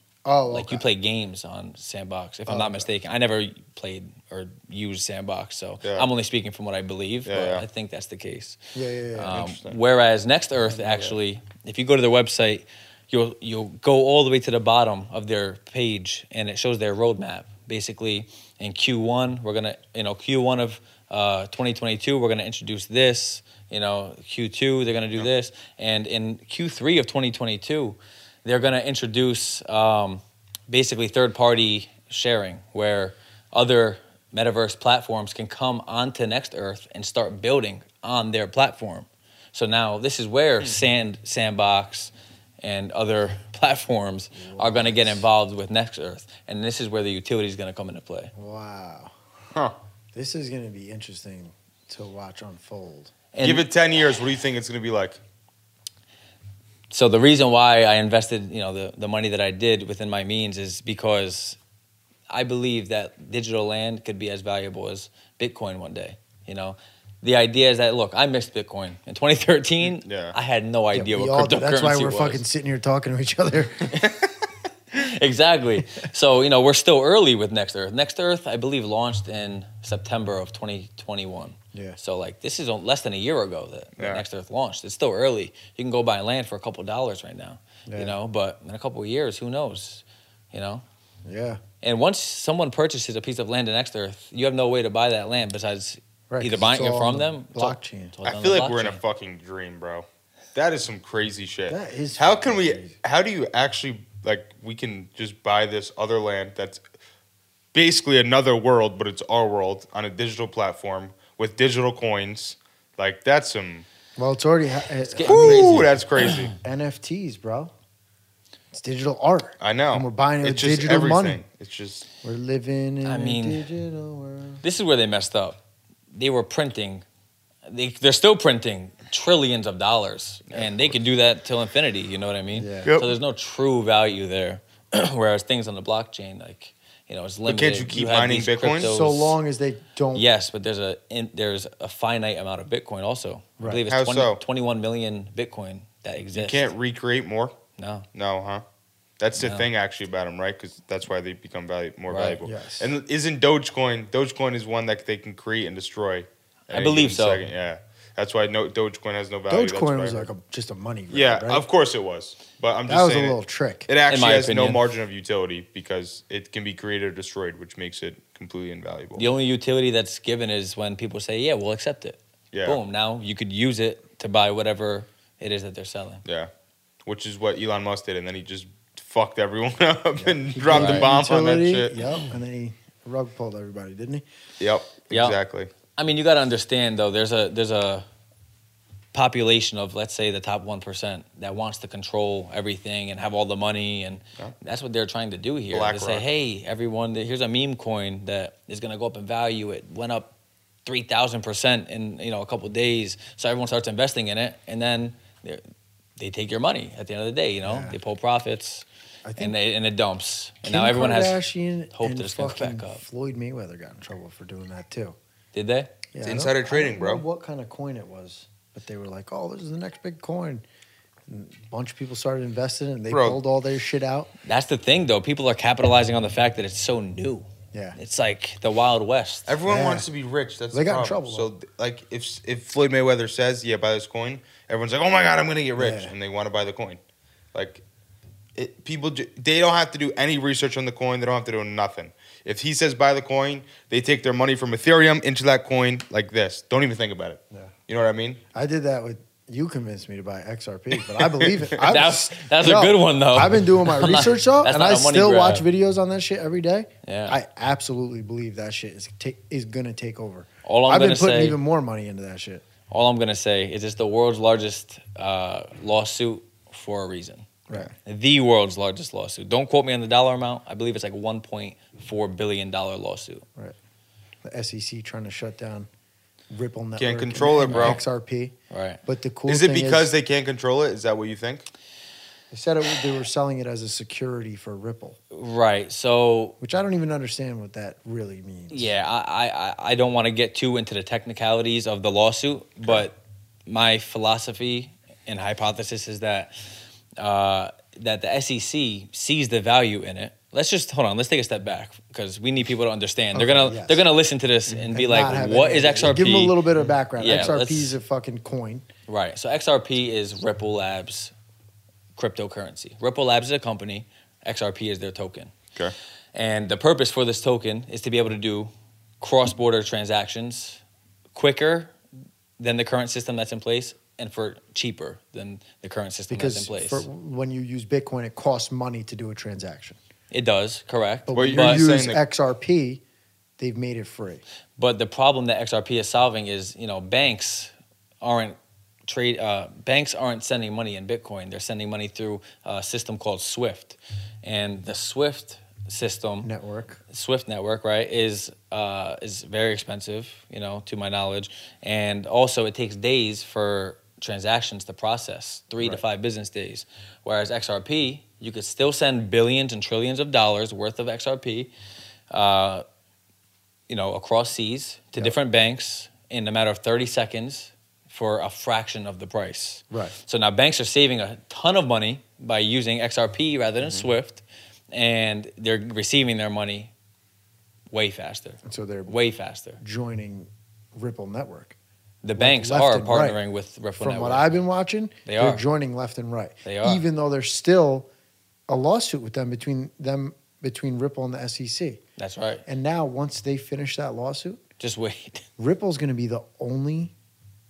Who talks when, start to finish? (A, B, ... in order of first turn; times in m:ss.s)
0:00.2-0:00.9 A
0:00.5-0:08.6 B
0:02.5-0:02.9 A
0:05.8-0:06.1 C
0:07.3-0:07.6 C
0:08.8-0:09.4 A
0:09.2-0:48.3 B
0:09.3-0:09.8 C
0:10.7-0:11.2 A
0:44.4-0:45.2 A
0:48.4-0:49.1 A
0:50.1-0:53.1 A
0:53.3-0:53.6 B
0:53.4-0:55.2 C
0:56.9-1:01.6 B
1:02.3-1:12.4 B
1:09.8-1:10.4 C
1:10.9-1:14.1 A
1:14.9-1:30.8 B
1:24.0-1:24.2 C
1:27.9-1:28.2 A
1:31.3-1:31.6 A
1:31.8-1:39.0 B
1:36.3-1:38.2 A
1:38.2-1:46.8 C
1:41.7-1:42.9 A
1:47.7-1:53.8 C
1:54.2-1:55.9 A
1:55.1-1:56.5 B
1:55.2-1:56.5 C
1:56.5-1:57.7 A
1:58.7-2:01.4 A
1:59.6-2:02.1 C
2:02.2-2:04.6 A
2:03.0-2:03.7 B
2:04.6-2:05.6 B
2:06.1-2:07.0 B
2:07.7-2:19.4 B
2:12.6-2:12.9 A
2:12.8-2:13.2 C
2:17.5-2:19.0 C
2:18.8-2:20.2 A
2:20.2-2:26.7 B
2:23.6-2:23.8 A
2:23.9-2:24.4 C
2:26.3-2:27.5 C
2:27.8-2:28.1 B
2:28.2-2:28.6 C
2:29.2-2:40.3 C
2:29.4-2:29.7 B
2:32.1-2:32.4 B
2:32.4-2:32.9 A
2:36.7-2:37.4 B
2:39.5-2:41.7 A
2:41.1-2:49.3 C
2:42.9-2:43.9 A
2:44.1-2:44.8 B
2:49.2-2:56.2 B
2:52.5-2:52.8 C
2:56.2-2:56.5 C
2:57.0-3:02.0 C
3:00.2-3:04.2 A
3:00.7-3:01.1 B
3:04.6-3:05.7 C
3:05.1-3:05.4 B
3:06.0-3:08.1 B
3:09.1-3:20.3 B
3:15.7-3:16.3 C
3:20.8-3:25.6 B
3:26.2-3:28.9 B
3:27.6-3:28.0 A
3:29.2-3:29.6 A
3:29.4-3:31.4 B
3:30.6-3:35.2 A
3:31.9-3:33.0 B
3:35.5-3:35.9 B
3:36.1-3:40.6 A
3:36.2-3:37.2 C
3:41.3-3:44.3 A
3:43.1-3:43.4 C
3:44.5-3:49.5 B
3:47.7-3:48.0 A
3:49.5-3:57.0 C
3:49.6-3:50.1 A
3:50.7-3:51.5 A
3:55.8-3:56.1 A
3:57.5-3:57.8 C
3:58.6-4:08.4 C
4:08.5-4:22.6 A
4:11.2-4:11.8 C
4:11.8-4:15.6 B
4:17.0-4:17.4 B
4:20.6-4:21.6 B
4:22.9-4:33.4 B
4:34.4-4:35.9 A
4:36.5-4:38.5 A
4:37.0-4:38.0 C
4:37.7-4:38.0 B
4:38.7-4:39.0 B
4:39.0-4:40.1 A
4:39.5-4:41.7 C
4:42.5-4:45.2 A
4:45.3-4:46.6 B
4:46.6-4:48.9 A
4:48.7-4:56.5 B
4:57.2-5:06.6 B
5:03.3-5:04.0 A
5:04.9-5:08.9 A
5:07.2-5:08.0 B
5:09.1-5:11.3 B
5:12.2-5:15.5 B
5:16.3-5:20.8 B
5:21.3-5:21.9 B
5:22.6-5:27.1 B
5:26.3-5:30.0 A
5:30.3-5:31.8 B
5:31.3-5:33.0 A
5:31.3-5:32.2 C
5:33.6-5:34.4 A
5:34.8-5:46.5 B
5:46.4-5:47.0 A
5:47.1-6:01.7 B
6:02.3-6:02.8 B
6:03.9-6:16.9 B
6:17.9-6:19.8 B
6:18.6-6:19.2 A
6:19.8-6:21.8 A
6:22.2-6:24.5 B
6:22.4-6:23.4 A
6:24.0-6:28.1 A
6:25.3-6:25.6 B
6:26.6-6:27.0 B
6:28.7-6:32.0 A
6:32.2-6:32.6 B
6:32.7-6:34.6 A
6:34.8-6:35.5 B
6:35.6-6:37.1 A